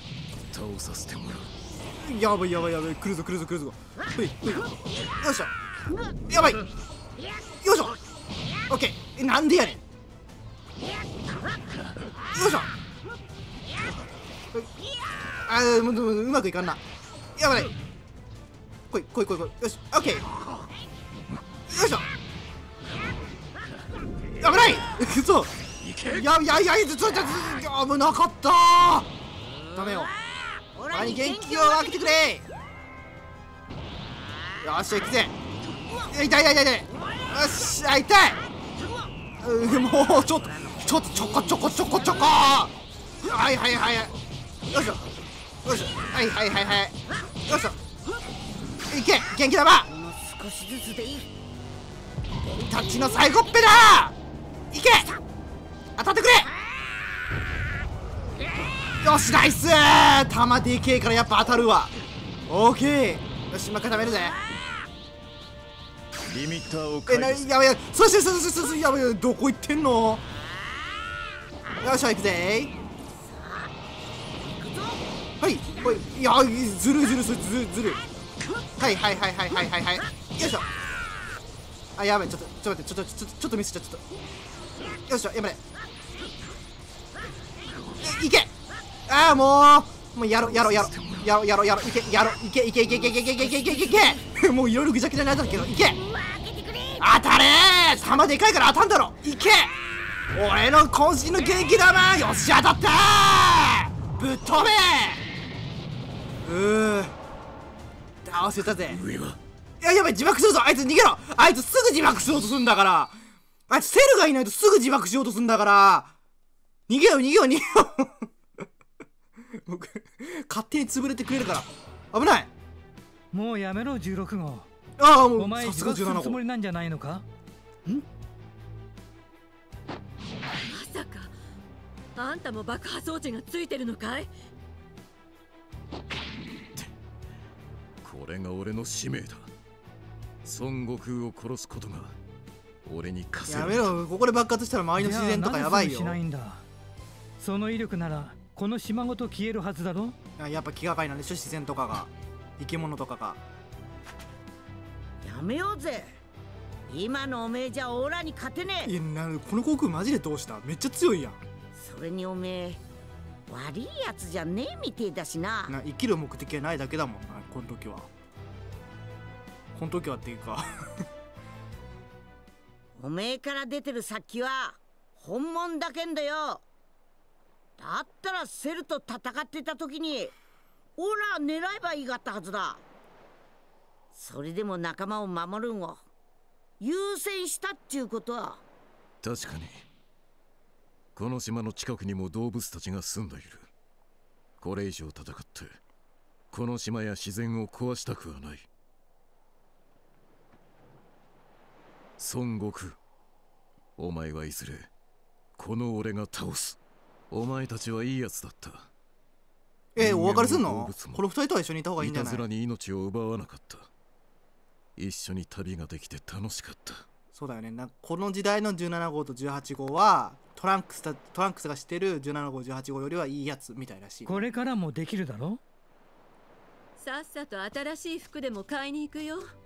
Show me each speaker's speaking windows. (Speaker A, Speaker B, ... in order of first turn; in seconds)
Speaker A: 0.5-1.5, 66.2-67.5, 90.4-91.2, 108.6-109.4, 138.0-139.5, 140.4-142.1, 142.8-144.0, 189.2-189.8, 191.1-193.7, 194.6-195.8, 196.5-198.7, 202.2-203.0, 204.0-204.9, 205.6-206.8, 207.3-208.9, 210.0-211.2, 212.0-213.9, 214.9-217.1
Speaker B: 2.0-5.5, 6.3-6.7, 7.6-8.0, 8.7-9.8, 12.3-12.7, 15.5-16.8, 17.4-17.7, 18.9-20.3, 21.7-22.1, 24.4-25.5, 26.0-29.1, 29.7-30.1, 30.9-32.4, 34.6-35.3, 36.1-38.4, 39.4-44.1, 44.7-45.0, 45.6-46.9, 47.5-47.8, 48.9-49.9, 52.5-54.1, 54.7-55.1, 56.0-56.5, 59.0-61.9, 62.5-64.4, 67.1-70.2, 71.8-72.7, 75.4-78.0, 78.8-80.7, 82.0-84.0, 85.1-85.6, 88.0-88.5, 89.1-96.0, 97.0-99.7, 100.3-105.2, 106.4-107.1, 108.2-109.0, 109.8-113.1, 113.7-116.1, 116.9-118.3, 119.6-122.5, 125.0-126.4, 143.5-146.2, 150.4-153.4, 158.8-161.4, 165.7-168.1, 169.7-170.7, 209.9-212.4, 217.3-224.4
Speaker C: 30.4-32.3, 40.5-42.3, 49.9-51.3, 73.2-73.7, 74.4-75.0, 95.9-97.0, 155.2-156.1, 156.9-158.9, 161.7-162.8, 163.5-165.7, 173.0-176.6, 177.8-180.3, 181.0-182.8, 184.1-186.0, 186.8-188.6
Speaker D: 123.3-124.7, 125.4-127.2, 145.0-146.6, 147.4-150.1, 224.2-225.6
Speaker E: 130.7-131.3, 132.2-134.3, 227.0-229.5